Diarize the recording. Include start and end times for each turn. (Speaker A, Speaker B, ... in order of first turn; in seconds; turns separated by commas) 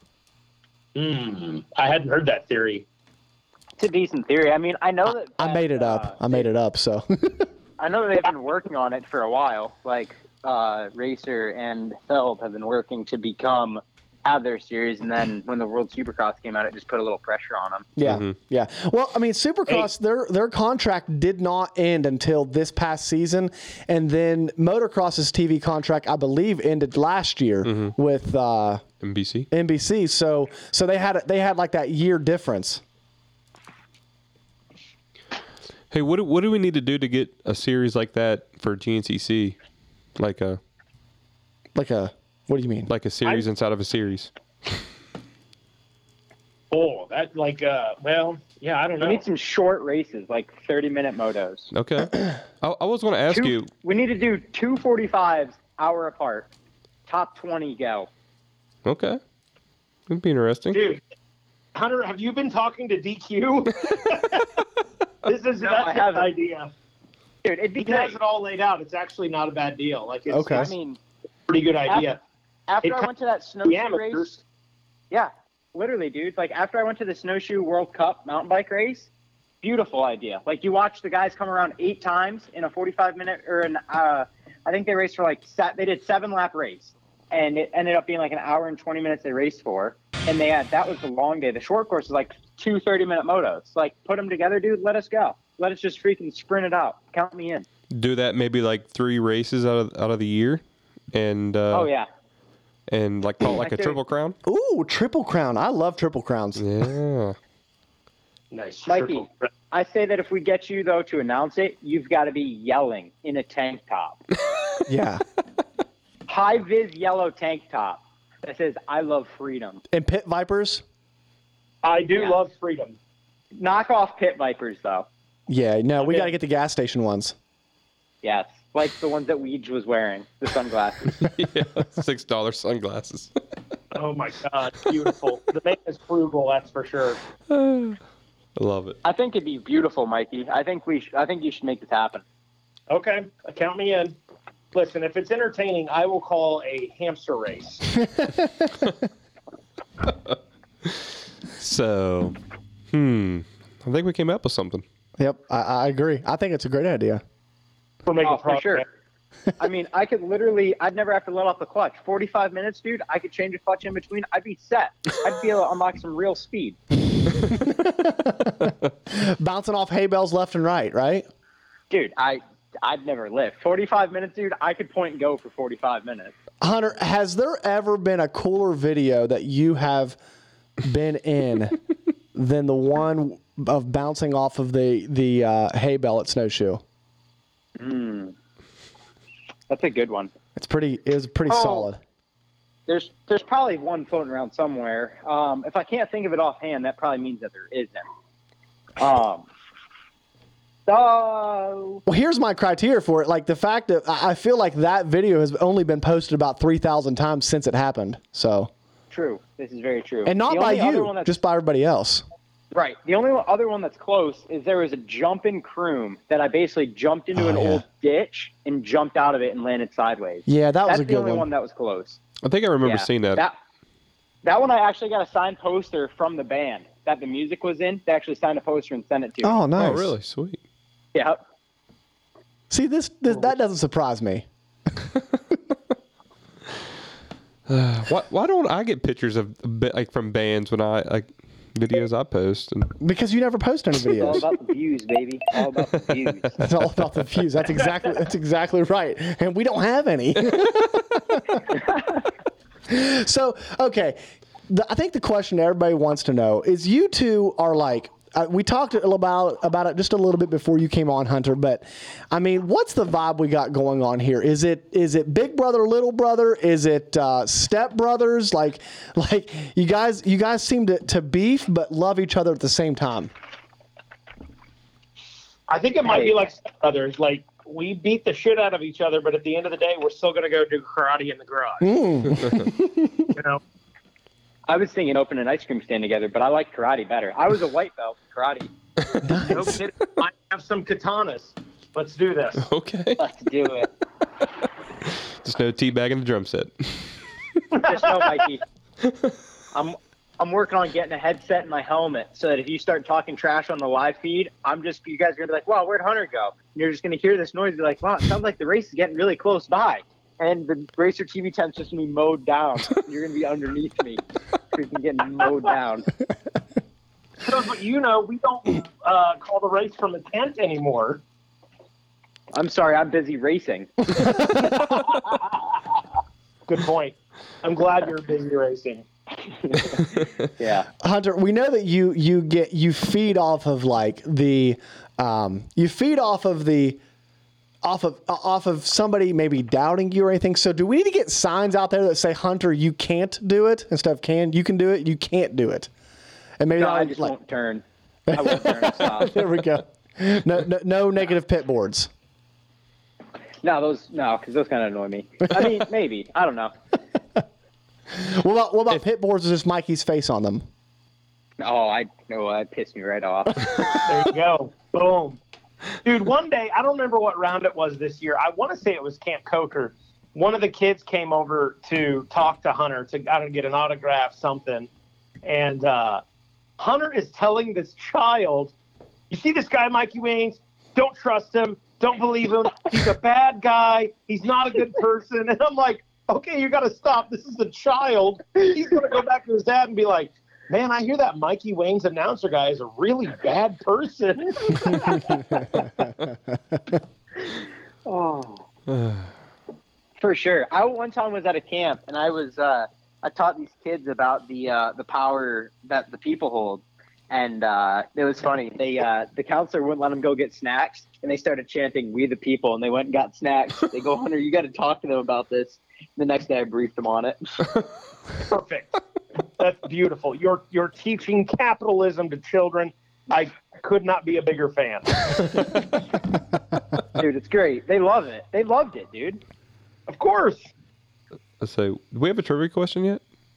Speaker A: 0.9-2.8, Speaker B: 3.8-6.5, Speaker C: 5.4-7.5, Speaker B: 7.8-17.9, Speaker C: 17.9-28.8, Speaker D: 18.0-18.3, Speaker D: 27.6-27.9, Speaker D: 29.0-29.5, Speaker C: 29.5-32.8, Speaker D: 35.9-39.5, Speaker D: 40.2-40.6, Speaker C: 41.7-42.9, Speaker D: 42.9-44.3, Speaker A: 46.7-49.2, Speaker B: 49.0-51.7, Speaker D: 51.7-53.7, Speaker B: 53.3-56.5, Speaker B: 57.1-58.1, Speaker D: 58.8-59.2, Speaker D: 60.1-60.8, Speaker A: 60.7-61.0, Speaker A: 61.7-64.4, Speaker A: 65.2-66.7, Speaker B: 65.6-66.3, Speaker B: 67.4-68.2, Speaker A: 67.8-70.7, Speaker C: 70.3-70.7, Speaker B: 70.5-71.0, Speaker A: 71.5-72.2, Speaker B: 72.7-74.3, Speaker A: 72.8-73.1, Speaker A: 73.6-74.4, Speaker B: 75.1-79.1, Speaker B: 79.6-97.7, Speaker D: 97.9-101.9, Speaker B: 101.7-102.1, Speaker D: 102.9-104.3, Speaker B: 103.6-104.0, Speaker C: 104.5-106.7, Speaker D: 106.6-107.3, Speaker A: 108.5-109.5, Speaker B: 108.8-114.2, Speaker C: 114.9-115.2, Speaker B: 116.3-119.8, Speaker C: 119.9-120.8, Speaker A: 121.8-123.0, Speaker B: 123.5-125.1, Speaker C: 125.5-127.3, Speaker A: 126.0-126.3, Speaker B: 128.2-131.1, Speaker D: 131.1-133.3, Speaker A: 133.9-137.2, Speaker D: 137.5-138.0, Speaker D: 138.6-139.0, Speaker B: 139.0-142.2, Speaker A: 142.9-144.2, Speaker A: 144.7-147.9, Speaker C: 148.1-148.7, Speaker D: 151.6-152.3, Speaker D: 152.9-154.8, Speaker C: 155.2-157.2, Speaker A: 158.1-158.8, Speaker B: 158.2-158.8, Speaker B: 159.6-166.8, Speaker C: 167.5-171.3, Speaker B: 171.9-176.3, Speaker C: 176.6-180.2, Speaker C: 180.8-181.8, Speaker C: 182.3-186.8, Speaker B: 187.8-188.3, Speaker B: 189.7-190.3, Speaker C: 190.6-192.0, Speaker B: 191.5-191.9, Speaker B: 192.9-198.1, Speaker B: 199.0-199.5, Speaker B: 200.9-202.0, Speaker C: 202.1-208.7, Speaker B: 209.1-211.3, Speaker C: 210.2-212.2, Speaker B: 212.7-222.2, Speaker C: 217.3-217.8, Speaker C: 220.5-221.5, Speaker D: 222.4-223.4, Speaker B: 222.8-223.6, Speaker B: 224.4-229.6, Speaker C: 229.4-230.1, Speaker D: 229.8-230.6, Speaker B: 231.1-231.4, Speaker C: 232.7-234.4, Speaker D: 237.7-242.9, Speaker C: 243.0-244.4, Speaker B: 244.1-246.6, Speaker C: 246.6-251.8, Speaker D: 250.4-250.7, Speaker C: 252.9-273.3, Speaker A: 275.7-281.9, Speaker B: 276.0-276.5, Speaker C: 281.8-283.3, Speaker A: 283.3-283.6, Speaker B: 284.7-288.7, Speaker C: 289.2-289.8, Speaker A: 289.5-292.6, Speaker D: 292.6-293.2, Speaker B: 293.2-293.9, Speaker D: 295.4-297.0, Speaker A: 297.7-298.2, Speaker B: 297.8-298.6, Speaker B: 299.7-316.1, Speaker A: 317.4-321.2, Speaker B: 322.5-324.5, Speaker C: 324.2-324.7, Speaker A: 326.7-329.0, Speaker B: 329.6-330.0, Speaker B: 330.6-330.9, Speaker C: 331.0-337.0, Speaker C: 337.8-345.9, Speaker C: 346.6-347.3, Speaker B: 346.8-349.4, Speaker C: 348.3-352.1, Speaker B: 353.6-356.7, Speaker C: 358.1-360.7, Speaker B: 361.6-363.8, Speaker A: 364.0-365.4, Speaker A: 366.0-374.9, Speaker A: 375.4-376.2, Speaker A: 376.8-378.7, Speaker A: 379.3-395.2, Speaker B: 398.1-398.6, Speaker D: 398.9-399.3, Speaker B: 400.2-417.4, Speaker A: 418.5-419.0, Speaker A: 419.6-425.2, Speaker B: 427.1-429.4, Speaker A: 430.1-430.7, Speaker D: 431.6-433.2